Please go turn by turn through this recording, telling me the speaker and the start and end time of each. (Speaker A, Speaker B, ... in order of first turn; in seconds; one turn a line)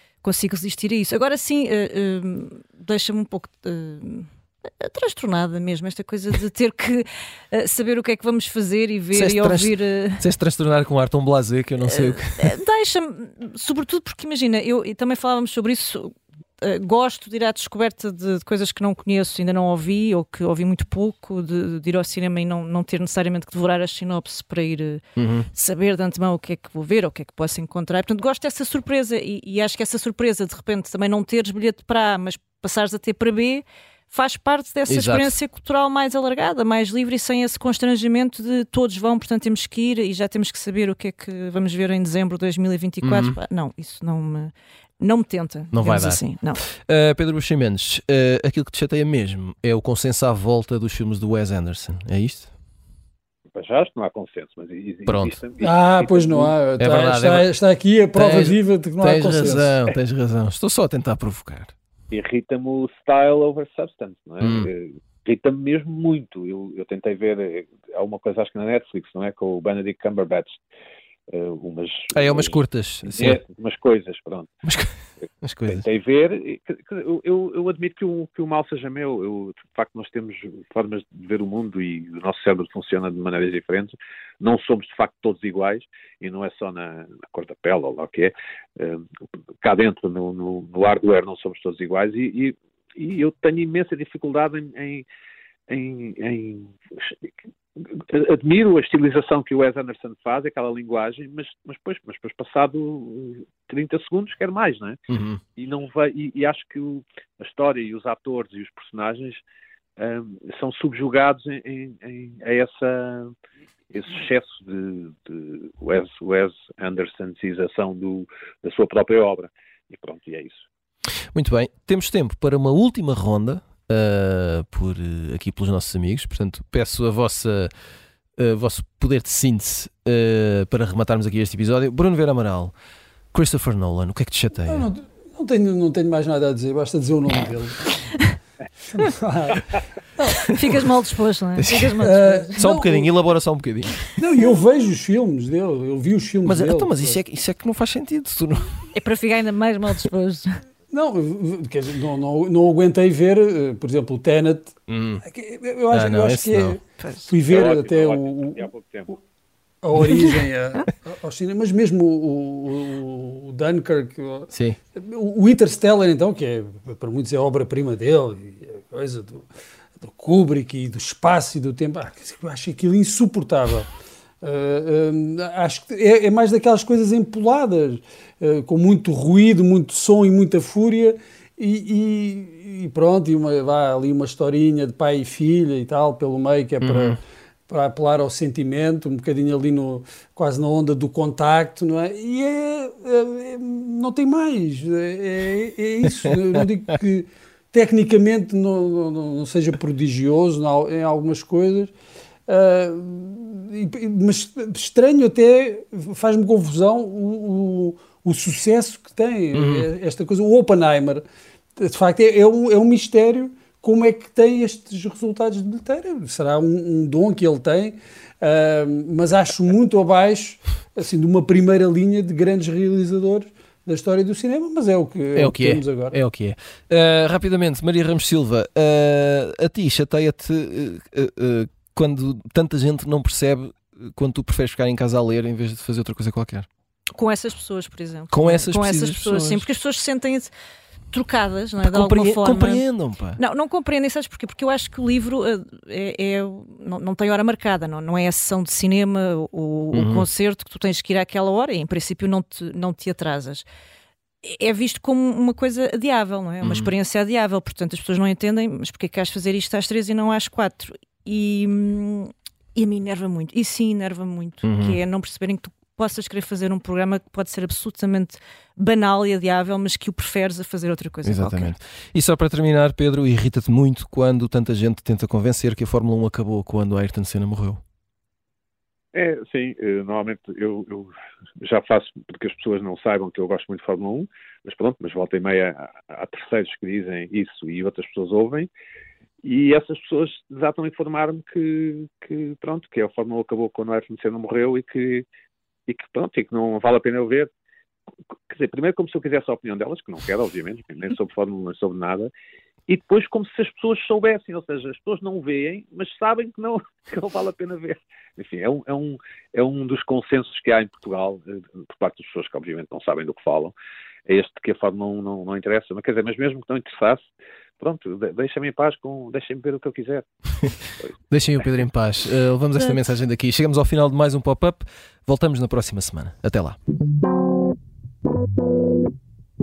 Speaker A: 0.2-10.2
Speaker B: 9.1-12.5
Speaker A: 11.9-25.0
Speaker B: 25.1-25.5
Speaker A: 25.5-46.6
Speaker B: 34.9-35.3
Speaker B: 43.0-43.4
Speaker B: 45.7-52.5
Speaker C: 53.5-56.6
Speaker B: 55.1-55.4
Speaker D: 55.6-59.8
Speaker B: 56.8-57.5
Speaker B: 58.1-61.7
Speaker C: 62.1-70.6
Speaker B: 64.4-64.7
Speaker C: 71.3-74.5
Speaker B: 72.1-73.4
Speaker B: 74.6-75.8
Speaker C: 75.7-89.1
Speaker C: 89.6-95.0
Speaker C: 95.7-105.0
Speaker B: 105.1-105.4
Speaker C: 105.5-109.4
Speaker C: 110.0-113.3
Speaker C: 113.9-120.7
Speaker B: 121.3-127.7
Speaker B: 128.4-132.8
Speaker B: 133.3-134.9
Speaker D: 134.6-137.9
Speaker D: 138.9-140.5
Speaker A: 140.5-142.5
Speaker B: 141.6-142.1
Speaker D: 142.0-143.1
Speaker B: 142.6-144.1
Speaker D: 144.2-147.2
Speaker B: 146.4-148.9
Speaker A: 148.9-150.6
Speaker D: 150.9-158.7
Speaker B: 154.9-155.2
Speaker B: 155.9-156.8
Speaker A: 157.0-157.3
Speaker C: 157.4-159.1
Speaker D: 159.8-169.5
Speaker B: 164.5-164.8
Speaker D: 170.0-173.9
Speaker D: 174.4-201.9
Speaker B: 186.8-187.2
Speaker D: 202.5-211.2
Speaker B: 209.6-209.9
Speaker D: 211.8-226.2
Speaker B: 225.4-236.7
Speaker A: 237.1-240.5
Speaker B: 238.3-239.7
Speaker A: 241.1-242.8
Speaker B: 241.8-243.4
Speaker A: 243.4-253.7
Speaker B: 249.9-250.3
Speaker A: 254.4-271.7
Speaker B: 256.6-256.9
Speaker B: 264.6-265.0
Speaker B: 271.2-277.8
Speaker C: 279.1-288.7
Speaker C: 289.4-295.3
Speaker C: 295.9-297.5
Speaker C: 298.5-302.3
Speaker C: 302.9-313.7
Speaker C: 314.3-320.3
Speaker C: 321.0-321.8
Speaker B: 321.3-326.8